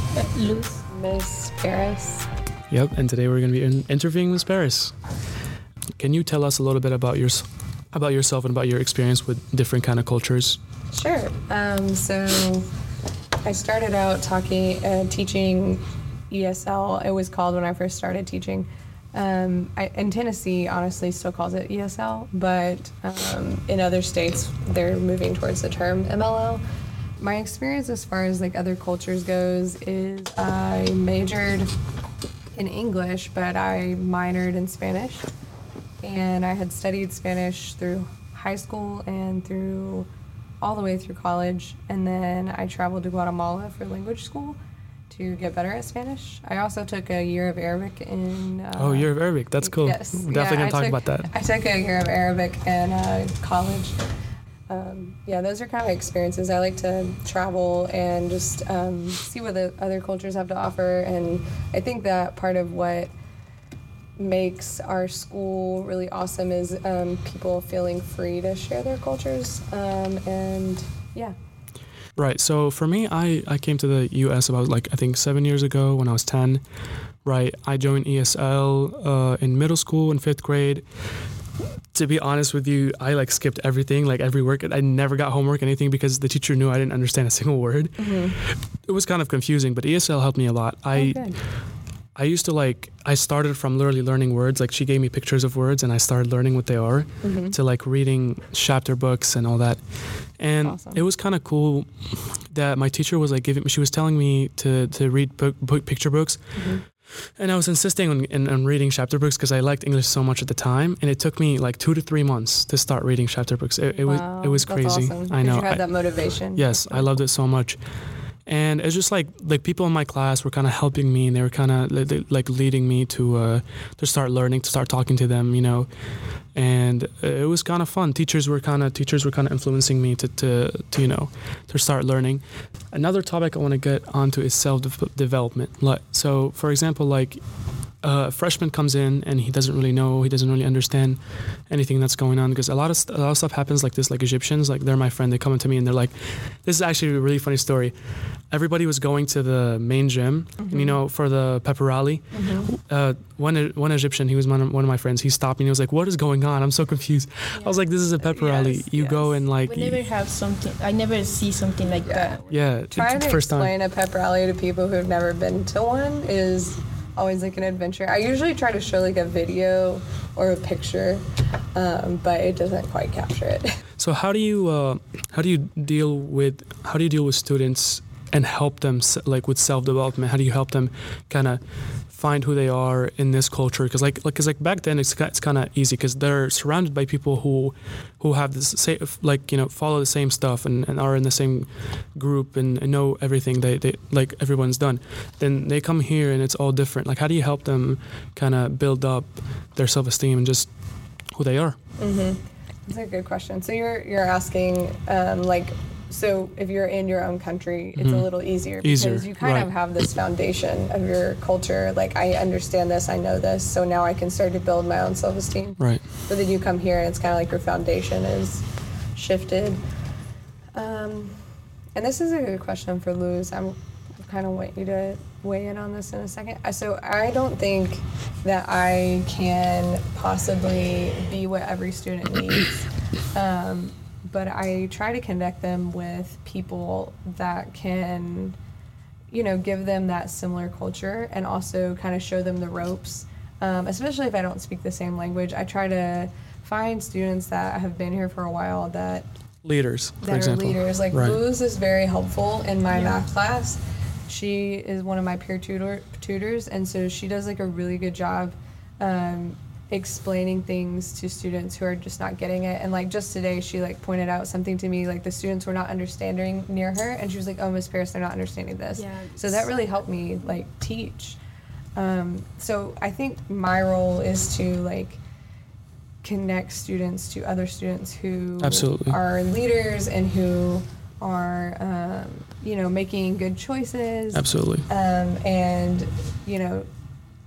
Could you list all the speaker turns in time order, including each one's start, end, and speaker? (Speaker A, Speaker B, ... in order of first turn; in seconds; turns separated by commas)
Speaker A: 0.1-0.8, Speaker B: 0.9-2.3, Speaker C: 2.7-5.0, Speaker C: 6.0-10.6, Speaker B: 10.9-12.7, Speaker B: 13.4-26.6, Speaker B: 27.2-31.7, Speaker B: 32.5-35.3, Speaker B: 36.0-40.1, Speaker B: 40.6-44.6, Speaker B: 45.1-54.0, Speaker C: 48.8-51.3, Speaker B: 54.7-63.1, Speaker B: 64.2-71.3, Speaker C: 72.2-76.6, Speaker C: 77.2-80.8, Speaker C: 81.9-91.6, Speaker B: 88.0-88.4, Speaker B: 90.9-91.4, Speaker C: 92.2-117.8, Speaker B: 97.2-97.6, Speaker B: 100.6-101.0, Speaker B: 106.6-106.8, Speaker B: 114.0-117.2, Speaker C: 118.5-125.9, Speaker C: 126.5-147.9, Speaker C: 148.5-160.0, Speaker B: 150.6-151.0, Speaker B: 152.3-152.7, Speaker B: 157.6-159.4, Speaker A: 159.7-162.6, Speaker B: 162.1-162.3, Speaker C: 162.5-163.7, Speaker B: 162.9-173.7, Speaker C: 174.0-200.7, Speaker C: 201.3-201.8, Speaker B: 202.0-219.8, Speaker C: 208.0-209.7, Speaker B: 220.8-221.4, Speaker B: 221.9-238.6, Speaker B: 239.3-249.3, Speaker C: 249.6-251.4, Speaker B: 250.2-271.4, Speaker A: 252.9-253.2, Speaker A: 269.0-269.7, Speaker B: 272.0-275.2, Speaker B: 276.2-286.9, Speaker C: 278.6-279.2, Speaker C: 284.3-284.9